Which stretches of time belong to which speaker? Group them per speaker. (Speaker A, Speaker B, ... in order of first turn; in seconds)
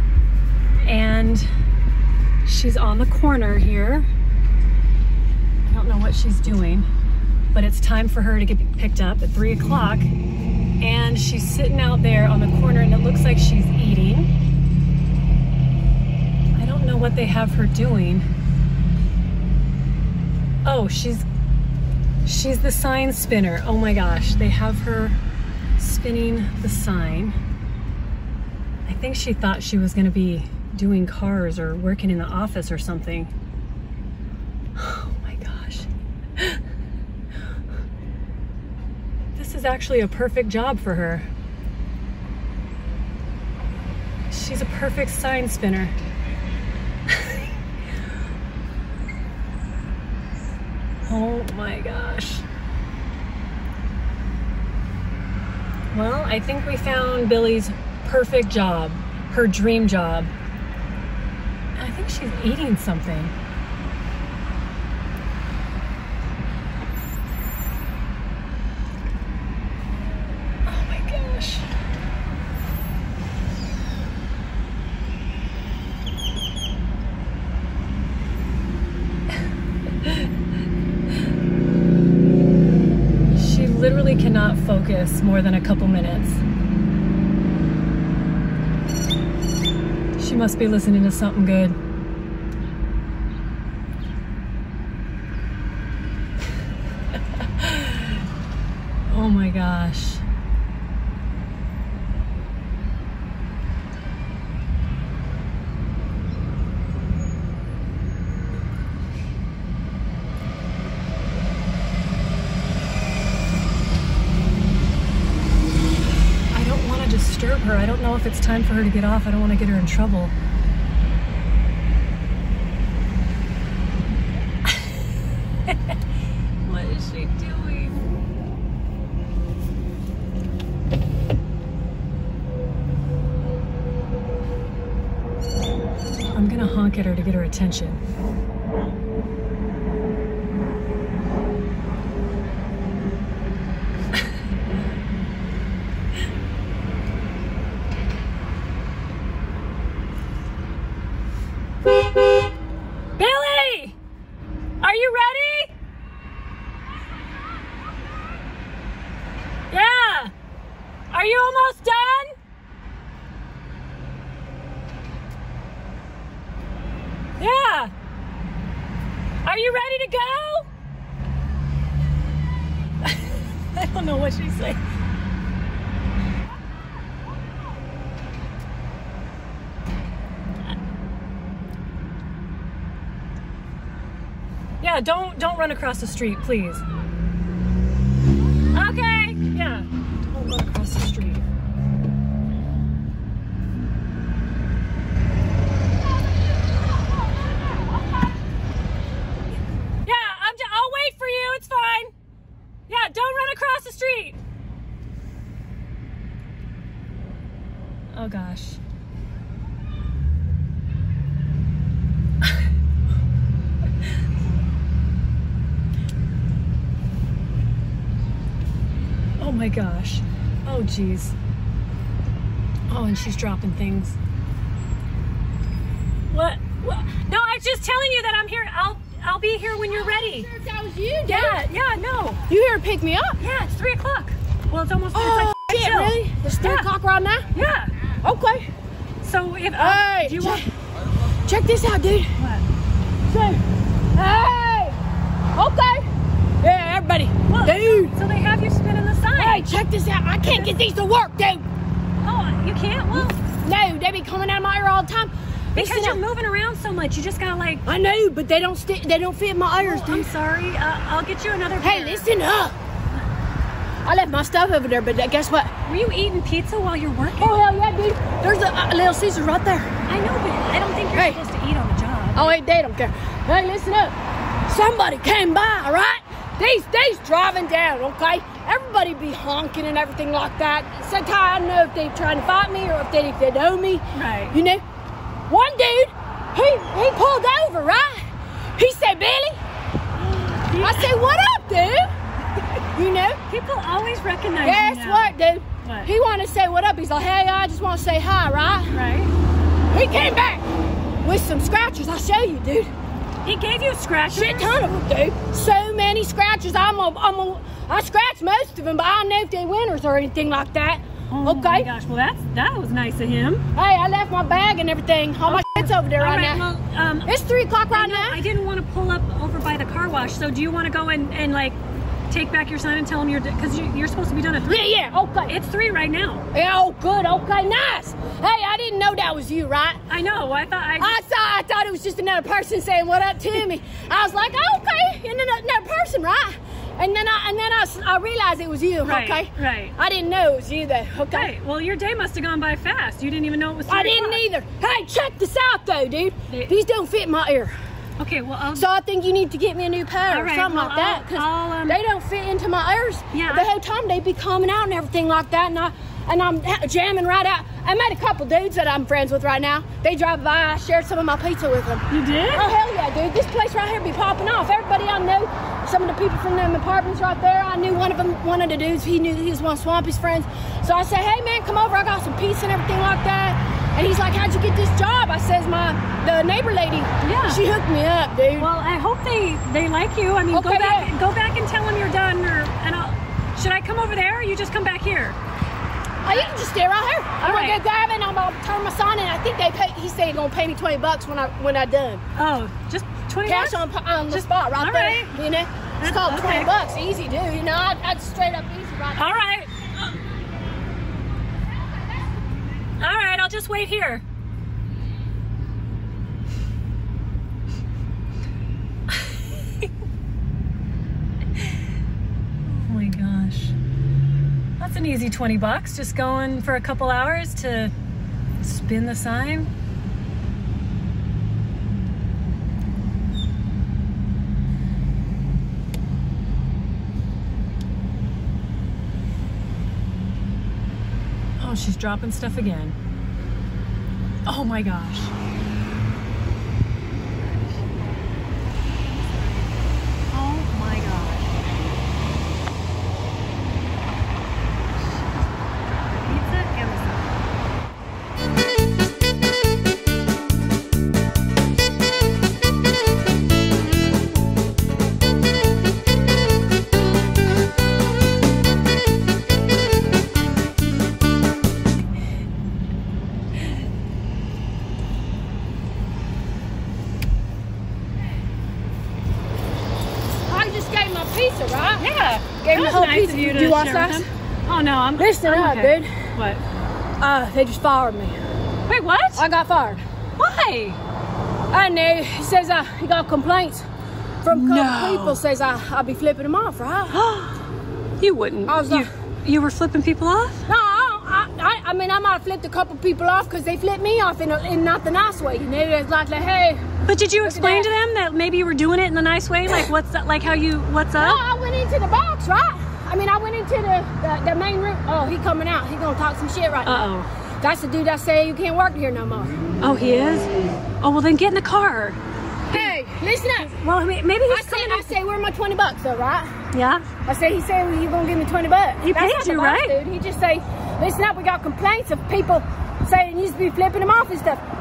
Speaker A: 0.8-1.5, 2.4-4.1, 5.7-6.9, 7.5-10.1, 10.8-14.3, 16.6-18.3, 20.6-21.3, 22.2-25.2, 25.8-27.4, 28.9-33.3, 34.8-36.6, 39.4-41.3, 44.3-46.0, 51.1-52.5, 55.9-60.3, 61.8-63.3, 70.7-71.7, 83.3-86.4, 90.2-91.8, 97.4-98.2, 99.1-100.2, 116.5-120.3, 125.7-125.9, 126.6-128.1, 136.2-138.0, 153.2-154.0, 154.8-155.7, 159.7-160.3, 161.1-162.3, 167.4-167.9, 169.4-170.7, 173.0-174.8, 184.8-186.8, 188.7-191.4, 200.1-202.1, 202.9-204.4, 208.1-208.8, 219.4-221.4, 222.9-224.2, 226.3-230.5, 231.3-232.4, 233.4-236.9, 237.5-237.9, 239.2-240.7, 242.4-242.7, 247.5-249.7, 250.4-250.8, 252.2-253.4, 255.8-257.9, 259.8-262.3, 265.9-267.6, 270.1-272.5, 284.1-284.6, 290.2-291.1, 293.5-296.1, 298.9-299.3, 303.4-305.0, 311.3-313.6, 315.4-317.3, 317.9-321.8, 322.3-324.9, 325.5-326.5, 330.1-331.2, 339.0-339.9, 341.3-344.4, 348.2-348.9, 350.3-352.0, 353.3-353.7, 362.1-362.7, 377.2-377.6, 378.6-385.4, 387.4-387.8, 392.4-395.3, 396.0-396.7, 399.2-399.7, 403.0-404.2, 412.8-413.8, 414.8-417.9, 418.6-419.7, 431.6-433.0, 434.5-435.3, 439.2-439.7, 440.3-441.5, 446.2-447.3, 472.0-476.6, 478.9-479.4, 480.4-481.0, 484.5-485.4, 487.1-487.7, 488.2-490.7, 497.1-501.4, 506.8-507.3, 509.8-510.5, 511.0-512.2, 513.6-515.2, 516.7-517.1, 519.0-520.0
Speaker B: 230.1-231.7, 232.5-233.4, 235.1-237.5, 238.2-238.7, 239.8-240.7, 241.4-242.3, 243.3-243.6, 244.2-245.0, 245.6-246.1, 246.6-248.2, 249.4-251.6, 253.6-256.2, 257.9-260.3, 261.8-262.8, 264.1-265.7, 267.4-269.9, 271.1-271.4, 272.3-274.1, 274.7-284.8, 285.5-289.6, 290.8-292.1, 292.8-293.4, 294.6-299.0, 299.9-300.6, 301.2-302.9, 304.3-311.9, 313.8-316.6, 317.3-318.4, 324.6-325.6, 326.5-330.0, 331.0-341.5, 343.9-347.7, 348.8-378.7, 380.5-381.1, 386.2-392.2, 393.4-399.4, 470.5-472.0, 472.6-474.3, 475.2-476.3, 477.2-478.4, 479.4-480.0, 481.7-483.9, 484.4-487.1, 488.7-489.1, 490.7-496.8, 497.4-497.9, 501.2-507.1, 507.6-509.6, 512.7-513.7, 514.5-516.5, 517.2-524.6